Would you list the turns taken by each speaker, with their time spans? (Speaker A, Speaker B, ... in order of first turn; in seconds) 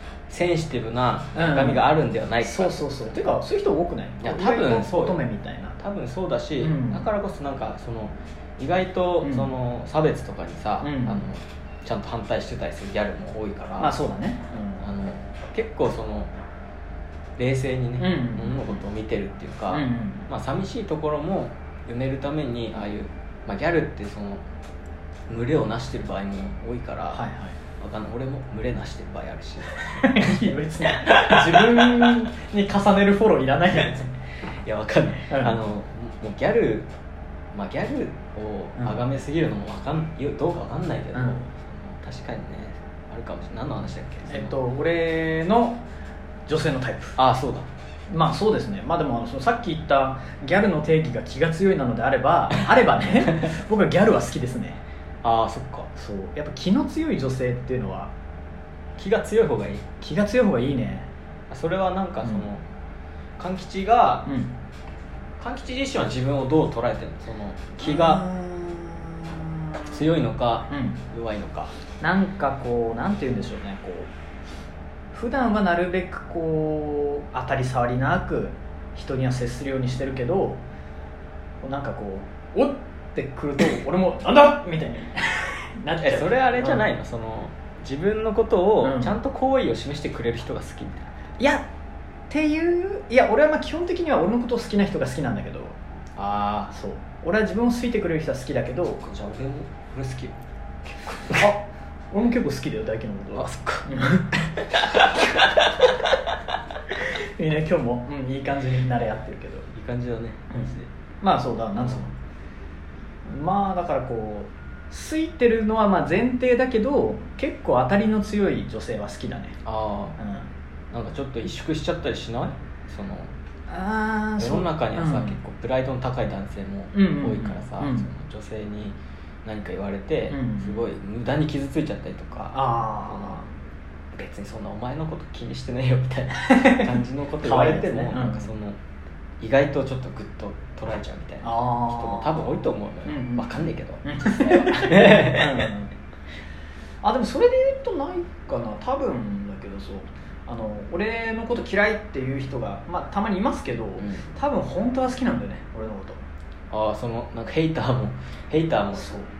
Speaker A: 0.3-2.7, 4.2-5.2, 5.8-13.9, 14.8-16.3, 17.4-24.4, 25.3-27.2, 27.8-32.3, 34.5-36.9, 37.5-44.5, 47.2-47.7, 55.2-55.9, 59.0-59.8, 61.5-62.6, 63.4-64.3, 65.4-68.2, 69.9-71.7, 86.0-91.1, 96.2-96.7, 99.0-100.4, 100.9-101.5, 103.3-105.9, 109.7-110.9, 119.6-120.2, 120.9-123.3, 124.4-133.4, 134.1-138.8, 139.4-145.7, 154.0-154.3, 156.7-159.1
Speaker B: 1.4-1.9, 2.4-5.8, 6.6-7.1, 9.2-9.5, 10.8-11.3, 13.8-14.9, 18.0-18.8, 19.7-20.3, 27.1-27.6, 29.8-34.1, 35.3-35.6, 41.1-41.4, 44.3-45.8, 46.5-47.2, 48.1-54.8, 56.0-58.1, 60.0-61.1, 64.3-64.5, 67.8-70.0, 70.7-71.0, 72.0-74.1, 75.1-80.6, 81.6-86.8, 88.8-89.1, 91.4-91.7, 92.3-95.8, 96.7-99.0, 101.4-104.3, 107.0-109.7, 110.5-112.1, 113.2-119.6, 120.2-120.5, 123.7-125.4, 126.9-128.1, 130.3-130.8, 132.5-133.5, 136.4-136.9, 137.4-138.5, 141.4-142.5, 143.1-145.9, 147.0-156.2, 158.9-159.3